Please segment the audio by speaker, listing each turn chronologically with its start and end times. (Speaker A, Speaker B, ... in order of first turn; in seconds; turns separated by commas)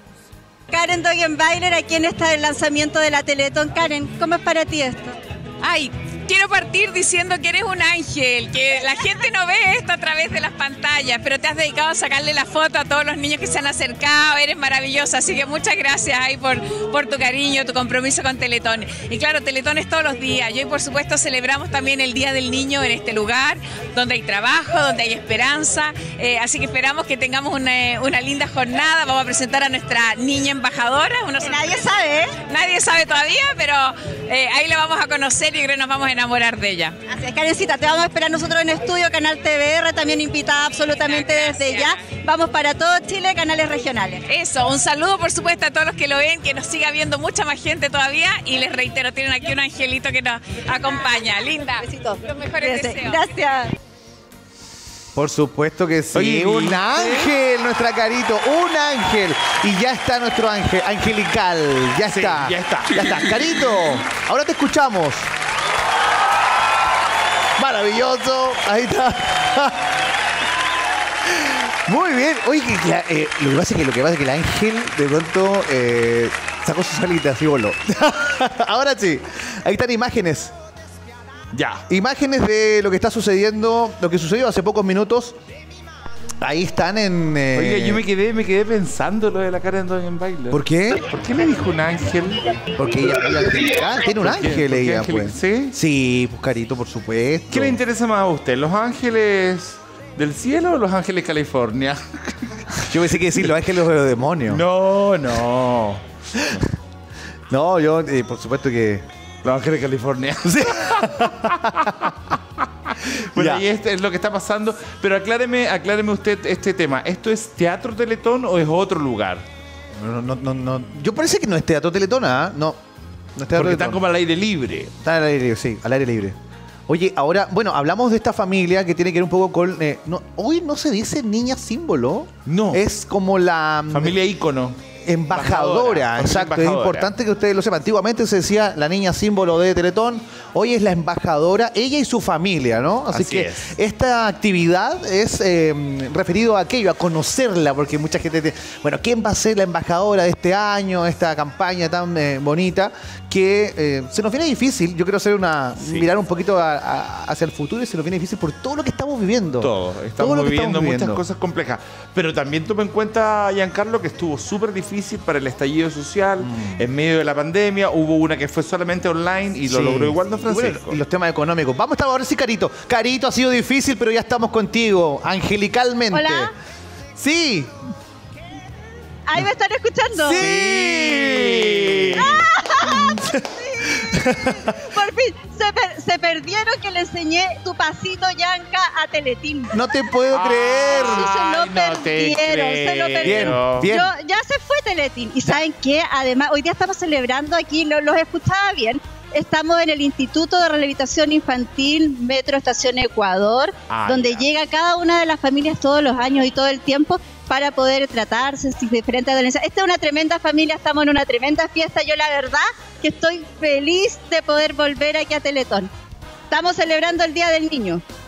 Speaker A: 0.7-5.2, Speaker B: 5.6-37.0, Speaker A: 31.4-32.4, Speaker A: 37.1-44.2, Speaker B: 40.9-42.0, Speaker B: 44.3-53.3, Speaker A: 51.0-53.8, Speaker C: 55.1-65.3, Speaker D: 56.1-57.3, Speaker D: 62.1-63.5, Speaker C: 67.6-70.0, Speaker C: 71.3-80.5, Speaker D: 81.5-81.8, Speaker C: 81.9-85.3, Speaker C: 86.4-88.0, Speaker D: 87.6-92.7, Speaker C: 90.5-91.0, Speaker C: 92.8-97.8, Speaker D: 94.0-95.7, Speaker D: 97.5-102.8, Speaker C: 102.8-104.6, Speaker D: 104.5-106.4, Speaker C: 107.5-109.0, Speaker D: 109.4-112.1, Speaker C: 110.4-112.1, Speaker D: 112.9-119.5, Speaker C: 113.3-113.7, Speaker C: 120.0-122.8, Speaker C: 123.4-124.0, Speaker D: 123.5-124.9, Speaker C: 125.0-126.4, Speaker C: 126.9-134.2, Speaker D: 132.5-132.8, Speaker D: 133.9-134.8, Speaker C: 135.0-161.2, Speaker D: 135.3-137.1, Speaker D: 143.1-143.7, Speaker D: 155.8-156.1, Speaker D: 159.6-171.0, Speaker C: 166.4-166.9, Speaker C: 169.7-176.5, Speaker A: 176.1-176.5, Speaker C: 177.2-177.7, Speaker A: 179.3-180.6, Speaker C: 180.2-184.9, Speaker D: 180.4-182.3, Speaker A: 182.2-184.1, Speaker A: 184.9-189.8, Speaker C: 189.7-191.3, Speaker D: 190.3-194.0, Speaker A: 190.8-215.9, Speaker C: 193.2-194.1, Speaker D: 203.9-204.5, Speaker A: 216.5-218.0